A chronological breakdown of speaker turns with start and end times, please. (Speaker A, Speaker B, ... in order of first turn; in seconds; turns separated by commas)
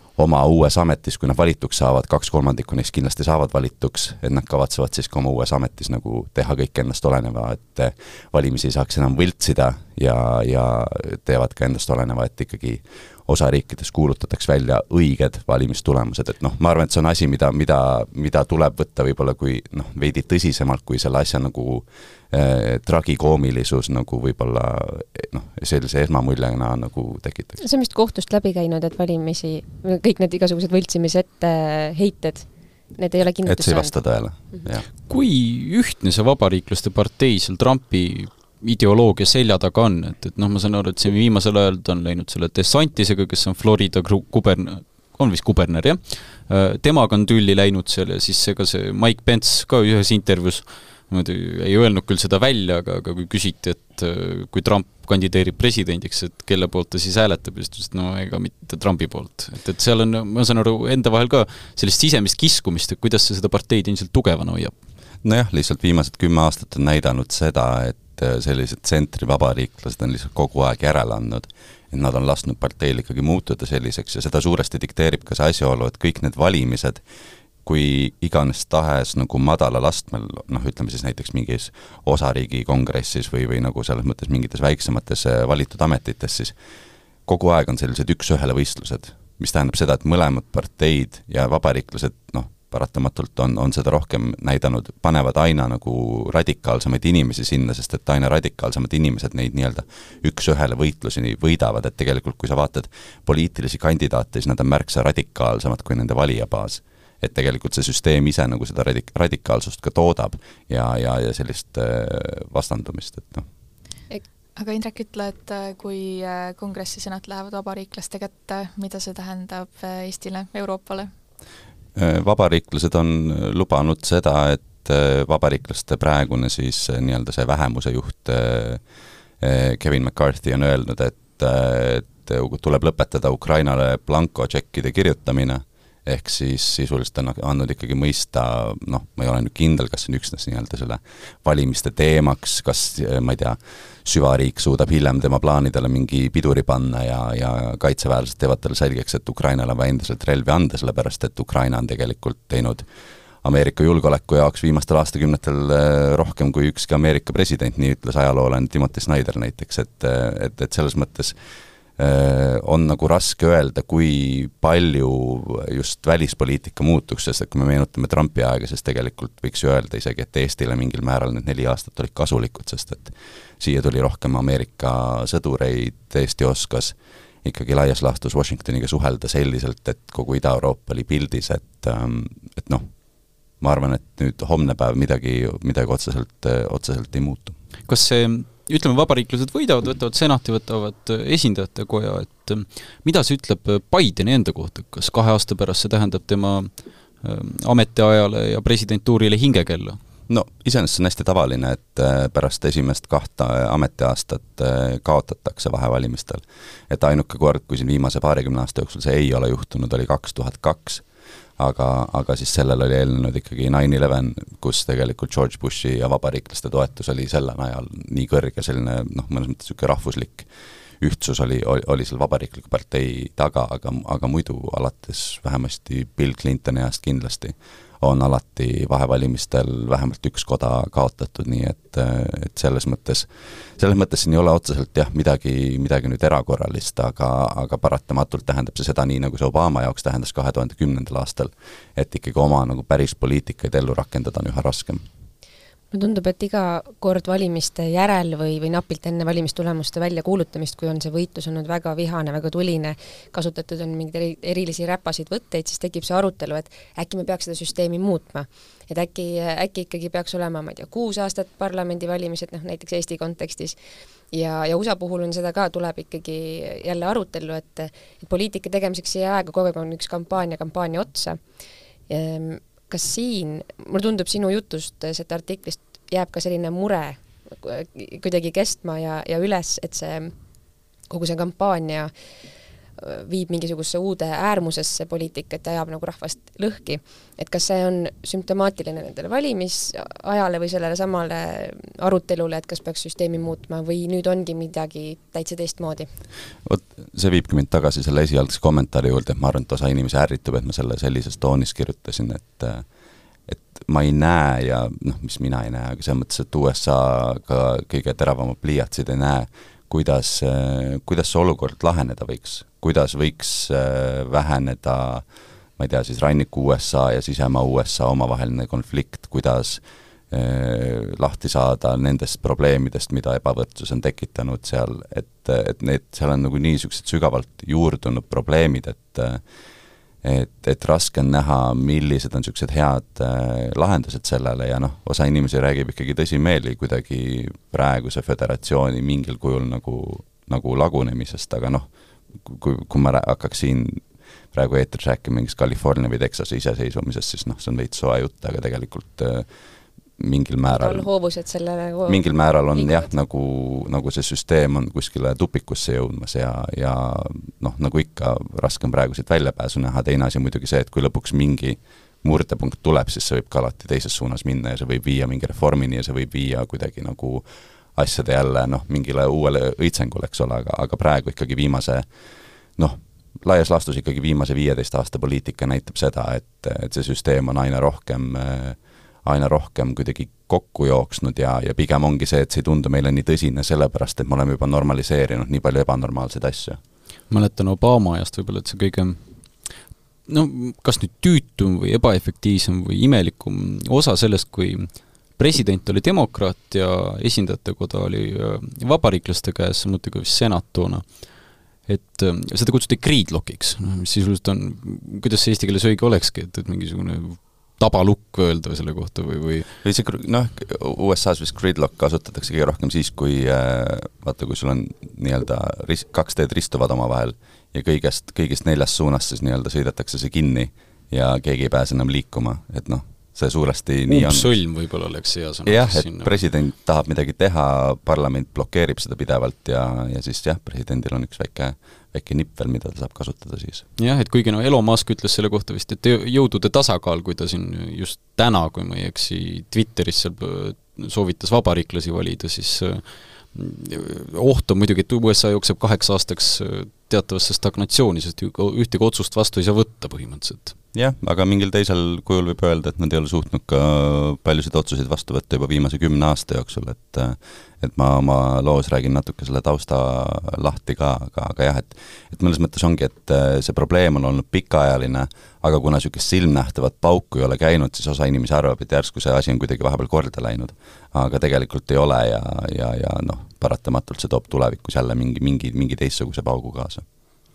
Speaker A: 0.1-27.6, Speaker B: 27.6-33.9, Speaker A: 33.4-34.9, Speaker C: 35.0-64.7, Speaker A: 65.2-77.0, Speaker A: 77.6-86.5, Speaker A: 87.3-113.5, Speaker D: 114.6-121.1, Speaker A: 121.9-128.8, Speaker A: 129.4-152.9, Speaker A: 153.4-161.3, Speaker A: 162.0-182.9, Speaker A: 183.6-187.6, Speaker C: 187.9-200.0, Speaker A: 200.3-211.0, Speaker A: 211.6-220.5, Speaker A: 221.0-245.0, Speaker B: 245.9-263.8, Speaker B: 264.3-271.4, Speaker B: 272.1-280.3, Speaker B: 281.1-282.1, Speaker B: 283.0-296.1, Speaker A: 296.6-302.9, Speaker A: 303.5-315.2, Speaker A: 315.8-329.4, Speaker A: 330.2-349.5, Speaker A: 350.2-351.1, Speaker B: 350.7-353.1, Speaker A: 352.1-372.1, Speaker A: 372.8-386.8, Speaker C: 387.3-389.7, Speaker C: 390.3-409.7, Speaker A: 409.8-424.5, Speaker C: 424.1-426.3, Speaker A: 425.6-433.9, Speaker C: 434.0-450.7, Speaker A: 450.9-477.0